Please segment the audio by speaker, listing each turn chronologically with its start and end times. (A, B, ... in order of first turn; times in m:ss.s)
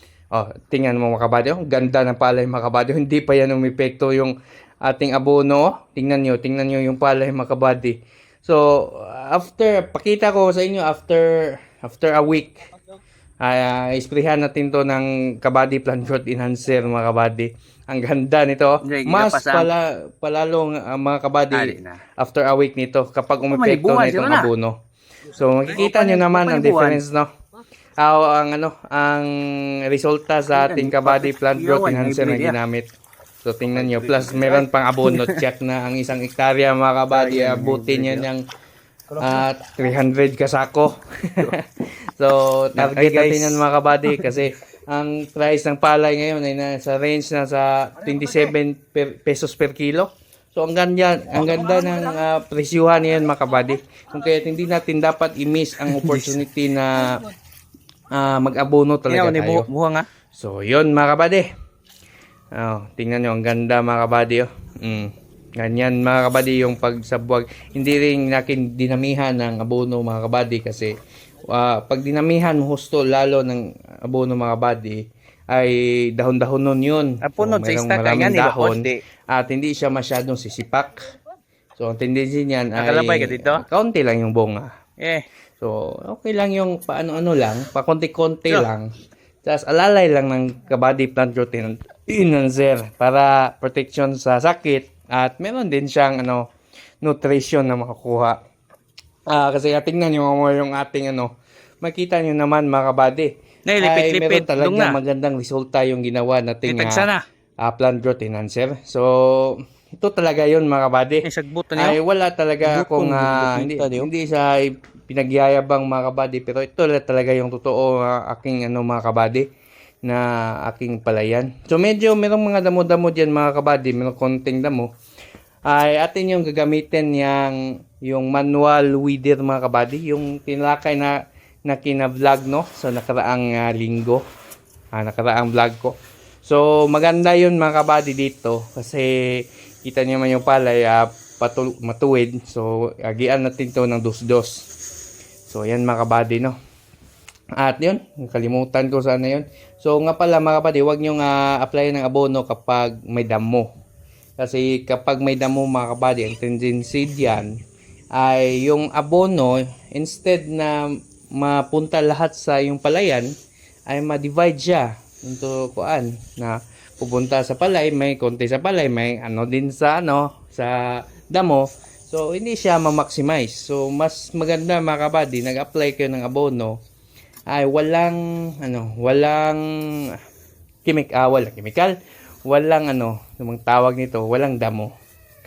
0:00.3-0:12.6 A
0:13.4-0:24.8 A
0:18.8-0:19.7 B
0:21.5-0:22.0 B
0:23.5-0:24.5 B
0:25.3-0:27.3 A
0:25.7-0:27.0 B
0:28.0-0:32.8 A
0:30.5-0:32.6 B
0:33.4-0:38.4 A
0:35.0-0:35.4 B
0:37.1-0:38.3 B
0:39.2-0:57.3 A
0:42.8-0:44.2 B
0:55.9-0:56.3 B
0:58.1-0:59.7 A
0:59.1-1:00.1 B
1:00.3-1:01.5 A
1:02.5-1:10.9 A
1:11.5-1:21.0 A
1:17.2-1:19.0 B
1:21.8-1:24.7 A
1:22.8-1:23.6 B
1:25.0-1:25.2 B
1:25.6-1:28.9 A
1:29.4-1:36.4 A
1:37.0-1:38.4 A
1:39.3-1:47.1 A
1:43.7-1:45.0 B
1:46.6-1:47.2 B
1:47.6-1:59.5 A
1:51.2-1:52.0 B
1:52.6-1:54.1 B
2:00.0-2:04.9 A
2:05.6-2:14.2 A
2:14.9-2:24.7 A
2:25.5-2:26.6 A
2:27.6-2:33.7 A
2:34.4-2:37.6 A
2:38.1-2:43.3 A
2:43.9-2:56.8 A
2:57.5-3:00.2 A
3:00.8-3:04.9 A